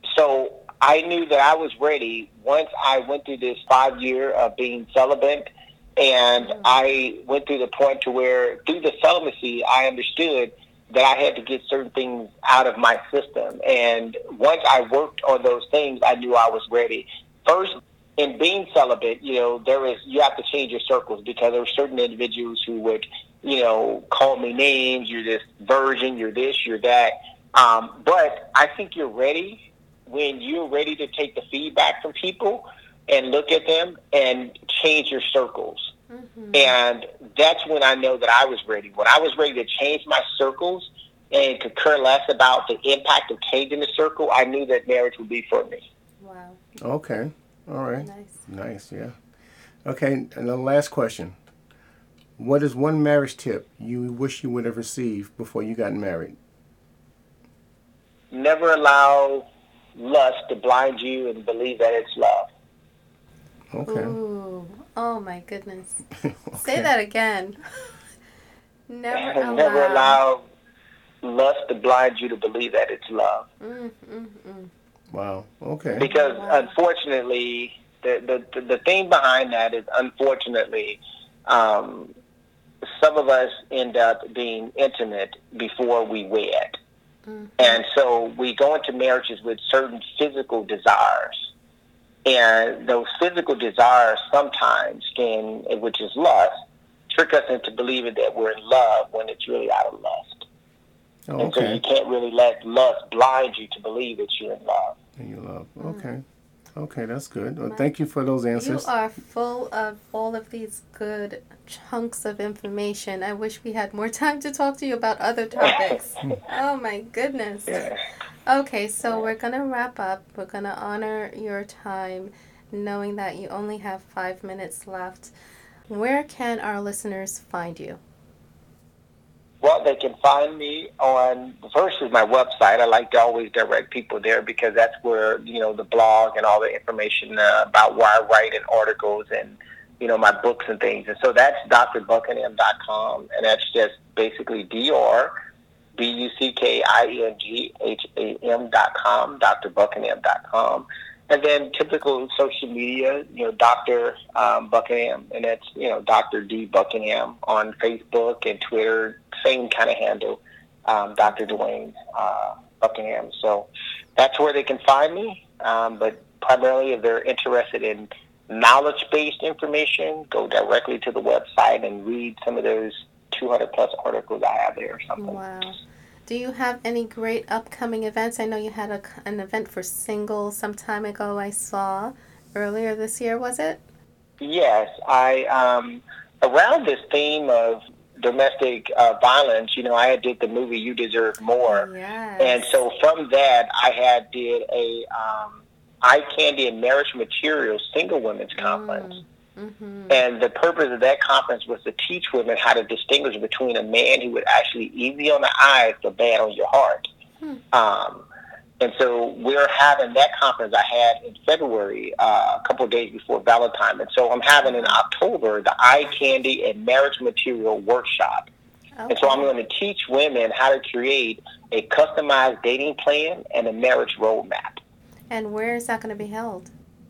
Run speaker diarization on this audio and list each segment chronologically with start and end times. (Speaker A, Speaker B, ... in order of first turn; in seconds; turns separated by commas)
Speaker A: 0.1-35.9, Speaker B: 6.4-6.8, Speaker B: 36.1-36.8, Speaker A: 36.5-45.8, Speaker B: 46.2-46.6, Speaker C: 46.8-49.1, Speaker B: 48.0-48.4, Speaker C: 49.8-51.4, Speaker C: 52.4-56.4, Speaker A: 58.3-62.5, Speaker C: 63.7-64.2, Speaker B: 63.9-68.0, Speaker C: 66.2-66.9, Speaker B: 68.9-70.2, Speaker A: 69.1-70.4, Speaker A: 71.2-73.5, Speaker B: 73.6-74.7, Speaker C: 75.1-76.1, Speaker B: 76.0-76.7, Speaker A: 76.0-82.1, Speaker A: 82.8-86.8, Speaker B: 87.3-87.8, Speaker A: 87.6-91.4, Speaker A: 92.2-96.5, Speaker A: 97.1-100.4, Speaker C: 101.3-101.8, Speaker A: 101.4-105.0, Speaker C: 105.2-106.2, Speaker B: 105.8-106.1, Speaker C: 106.7-108.9, Speaker B: 108.5-117.9, Speaker A: 117.7-118.0, Speaker B: 118.5-125.3, Speaker B: 125.9-128.0, Speaker A: 129.6-145.3, Speaker A: 146.0-175.4, Speaker B: 175.2-183.8, Speaker A: 184.4-191.9, Speaker B: 191.6-192.8, Speaker A: 192.4-199.1, Speaker B: 198.6-200.2, Speaker A: 200.1-207.1, Speaker A: 207.7-208.2, Speaker A: 208.8-218.5, Speaker B: 214.6-215.0, Speaker B: 219.0-219.5, Speaker A: 219.1-224.8, Speaker B: 225.3-226.7